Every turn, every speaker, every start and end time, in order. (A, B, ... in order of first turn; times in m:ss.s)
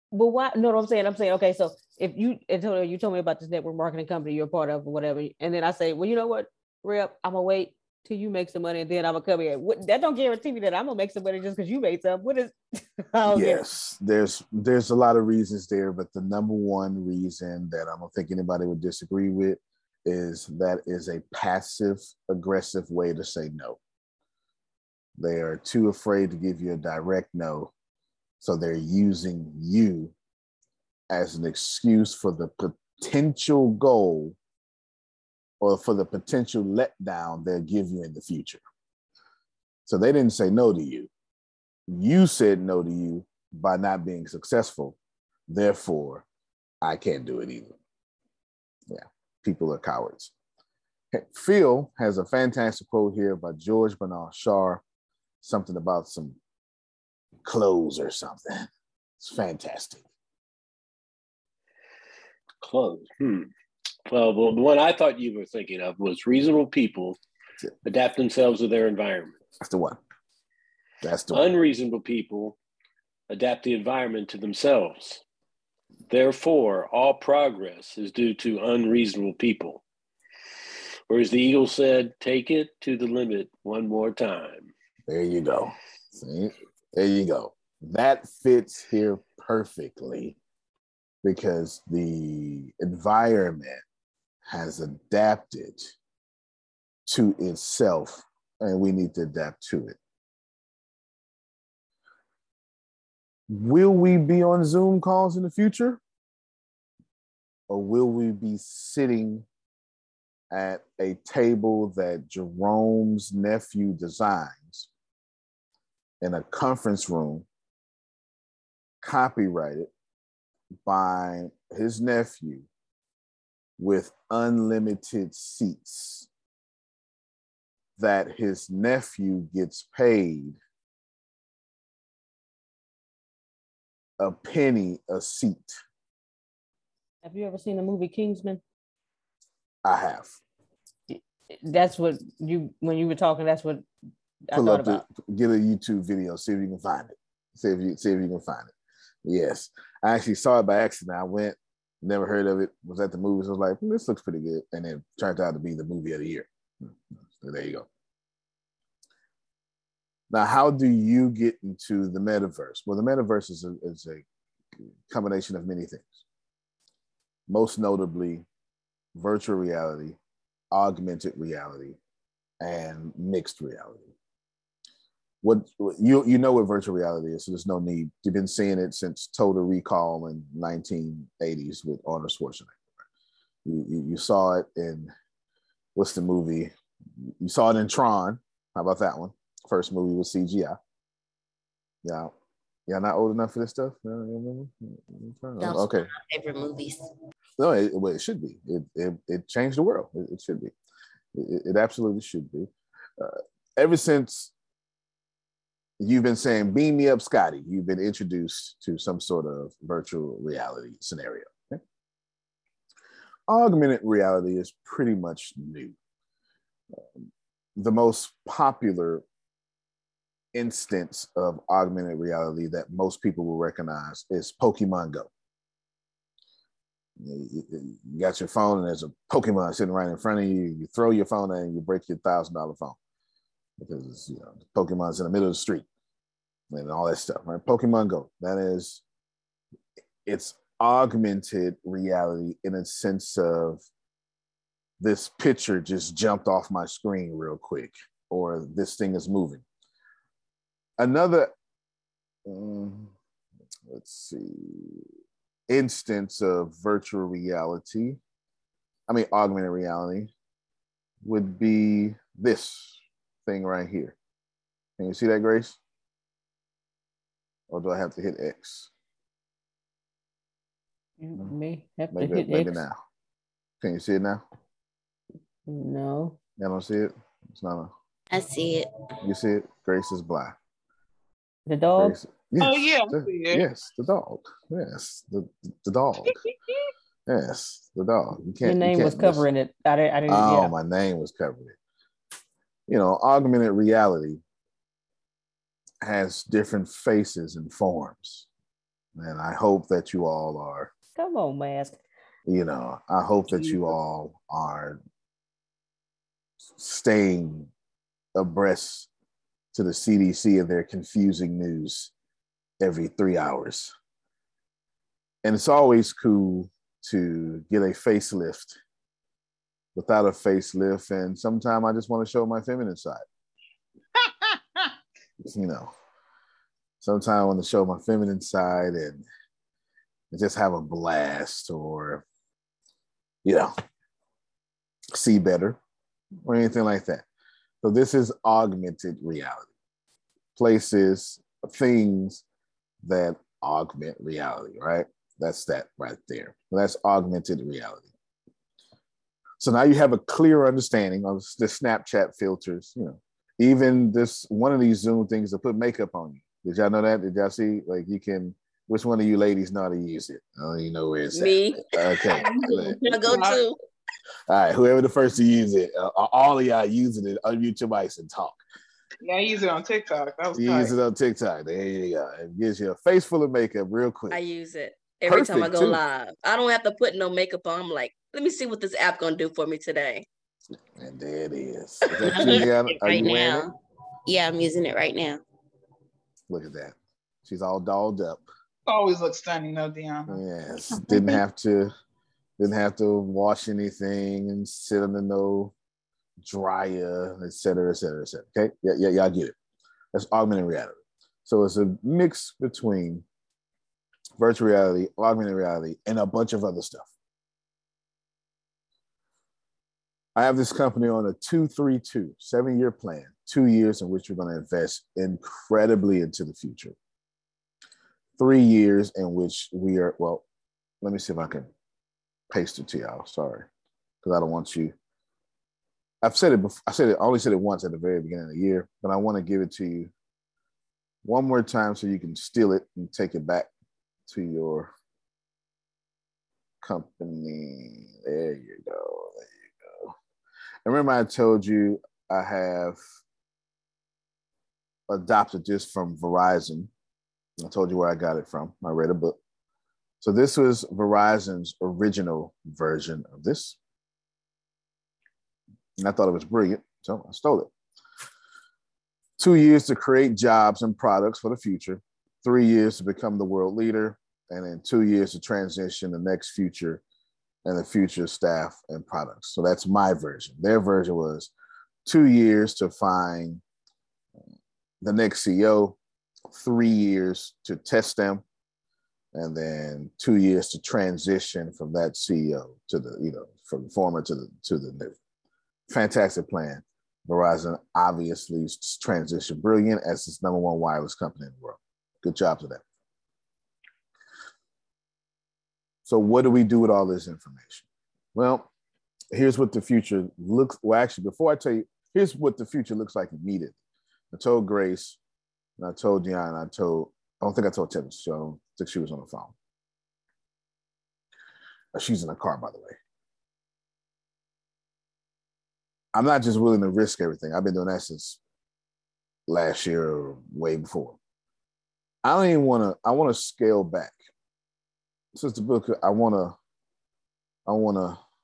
0:00.1-0:13.6 A
0:13.3-0:23.8 B
0:25.2-0:27.7 B
0:28.4-0:30.1 B
0:31.1-0:34.4 B
0:35.6-0:38.6 B
0:39.8-0:41.1 B
0:41.9-0:45.0 B
0:45.5-0:46.2 B
0:46.8-0:47.8 B
0:48.9-0:50.3 B
0:51.1-0:54.8 B
0:55.4-0:56.4 B
0:57.4-0:58.7 B
0:59.2-1:00.0 B
1:02.6-1:03.5 C
1:04.1-1:07.2 C
1:07.8-1:09.3 C
1:09.6-1:10.0 B
1:11.0-1:11.5 B
1:11.3-1:12.6 C
1:13.3-1:15.2 C
1:16.1-1:19.8 C
1:21.1-1:24.7 C
1:25.1-1:30.4 B
1:31.2-1:33.8 B
1:34.4-1:35.9 B
1:37.0-1:40.0 B
1:43.5-1:46.0 B
1:47.7-1:49.4 B
1:50.5-1:54.9 B
1:56.2-1:57.4 B
1:59.0-1:59.9 B
2:00.8-2:02.7 B
2:03.8-2:06.3 B
2:08.0-2:10.6 B
2:14.2-2:15.8 B
2:17.2-2:18.6 A
2:19.8-2:20.4 B
2:21.1-2:23.8 A
2:24.5-2:25.0 A
2:24.5-2:28.7 B
2:29.2-2:37.9 B
2:40.3-2:44.2 B
2:45.1-2:46.2 B
2:47.5-2:48.4 B
2:49.1-2:50.2 B
2:50.7-2:52.0 B
2:52.6-2:54.1 B
2:55.4-3:02.8 B
3:03.6-3:05.1 B
3:05.9-3:10.8 B
3:12.0-3:12.3 B
3:12.9-3:16.1 B
3:15.6-3:17.0 D
3:17.6-3:20.7 B
3:21.3-3:24.5 B
3:26.0-3:31.8 B
3:33.5-3:36.0 B
3:36.9-3:39.2 B
3:40.5-3:45.3 B
3:47.2-3:53.0 B
3:53.8-3:55.8 B
3:56.7-3:59.0 B
4:00.2-4:03.8 B
4:05.0-4:09.6 B
4:11.0-4:11.5 B
4:12.4-4:13.1 B
4:13.8-4:15.0 B
4:15.7-4:18.2 B
4:19.1-4:20.3 B
4:21.2-4:24.2 B
4:25.0-4:25.8 B
4:27.7-4:28.9 B
4:31.2-4:32.8 A
4:32.1-4:33.0 B
4:33.8-4:34.4 B
4:35.7-4:36.4 A
4:36.6-4:37.9 B
4:38.3-4:38.9 D
4:39.2-4:40.6 B
4:41.7-4:42.2 A
4:42.0-4:46.3 B
4:42.6-4:43.6 E
4:47.3-4:49.4 B
4:48.6-4:50.7 A
4:50.3-4:51.8 B
4:52.9-4:54.4 B
4:56.0-4:58.5 B
4:59.2-5:00.9 B
5:01.2-5:02.0 A
5:02.4-5:05.0 B
5:06.6-5:07.7 B
5:08.3-5:09.1 B
5:09.7-5:12.1 B
5:12.8-5:13.9 B
5:15.4-5:18.8 B
5:19.9-5:23.2 B
5:25.4-5:25.9 B
5:27.0-5:29.2 B
5:30.3-5:32.2 B
5:33.4-5:33.7 B
5:35.1-5:35.8 B
5:36.4-5:37.2 B
5:37.8-5:39.7 B
5:40.6-5:42.4 B
5:43.0-5:48.1 B
5:49.6-6:03.0 B
6:01.3-6:02.2 D
6:02.3-6:03.6 E
6:02.9-6:03.8 D
6:04.5-6:08.6 B
6:09.2-6:10.9 E
6:10.6-6:14.4 B
6:14.3-6:20.2 D
6:15.2-6:16.0 B
6:21.0-6:23.7 B
6:22.0-6:23.7 D
6:24.3-6:25.4 D
6:26.5-6:28.4 B
6:28.9-6:30.4 E
6:30.3-6:31.9 B
6:30.9-6:31.4 E
6:32.6-6:35.7 B
6:36.4-6:39.5 B
6:40.1-6:43.2 B
6:44.4-6:47.1 B
6:50.3-6:57.0 B
6:58.4-7:00.4 B
7:01.0-7:01.7 B
7:02.5-7:03.7 B
7:04.2-7:04.9 B
7:06.2-7:10.1 B
7:11.2-7:13.7 B
7:14.3-7:14.9 B
7:16.8-7:20.1 B
7:20.8-7:23.0 B
7:25.1-7:26.9 B
7:27.6-7:29.4 B
7:30.2-7:33.8 B
7:36.0-7:37.7 B
7:39.4-7:47.0 B
7:47.6-7:51.5 B
7:52.0-7:53.6 B
7:55.0-7:56.0 B
7:56.5-7:58.4 B
7:59.3-8:05.1 B
8:05.9-8:12.8 B
8:16.0-8:18.7 B
8:19.3-8:23.8 B
8:24.3-8:25.2 B
8:25.8-8:29.5 B
8:31.9-8:33.0 B
8:36.1-8:38.4 B
8:39.5-8:41.2 B
8:42.2-8:44.2 B
8:45.3-8:46.6 B
8:47.6-8:48.2 B